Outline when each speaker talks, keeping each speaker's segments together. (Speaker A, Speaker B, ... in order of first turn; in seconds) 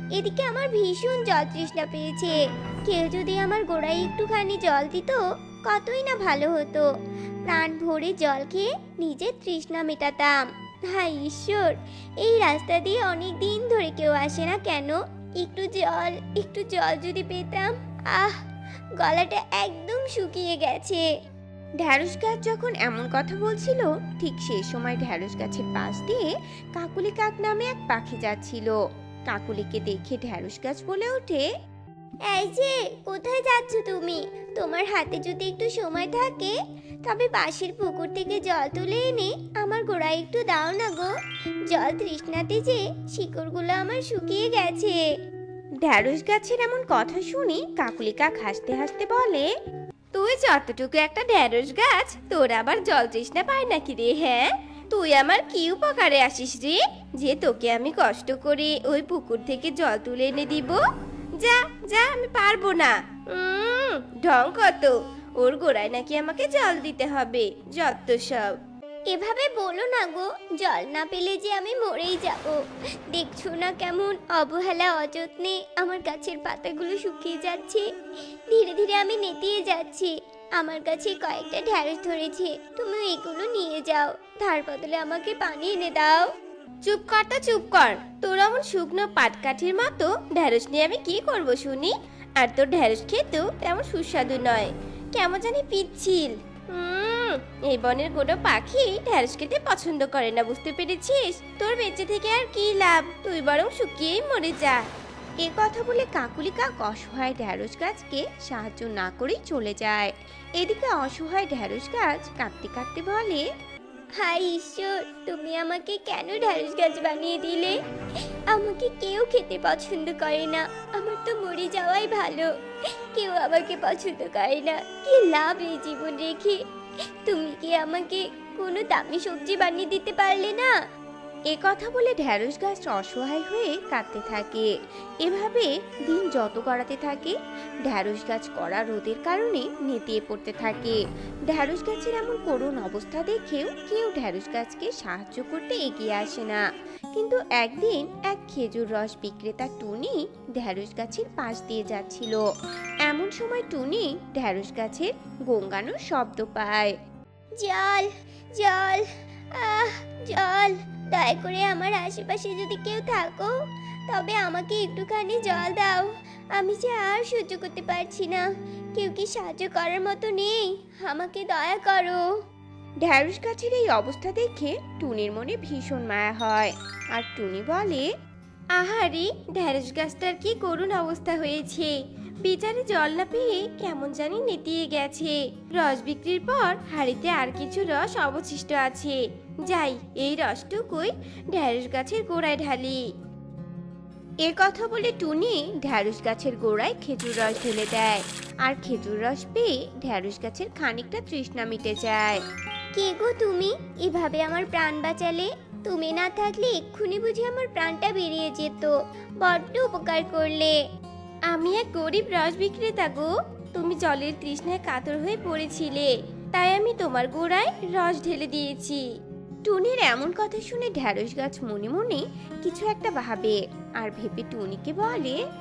Speaker A: 0.1-2.3, 2.9-6.8, 7.5-10.3, 10.9-18.4, 19.0-21.0, 32.3-41.1, 41.7-45.0, 69.1-72.6, 73.1-77.8, 78.5-86.3, 114.2-117.8, 118.5-122.5, 123.1-126.6, 127.2-130.7, 157.6-163.5, 164.1-172.2, 202.9-210.7
Speaker B: 21.8-28.8, 29.3-31.5, 45.8-49.5, 105.4-113.4, 131.5-134.7, 135.2-137.3, 137.9-146.6, 147.1-152.4, 153.0-156.9, 173.0-178.1, 194.4-202.4, 219.6-225.4
Speaker C: 50.1-60.8, 61.4-68.5, 86.8-104.8, 178.8-193.0, 211.5-219.0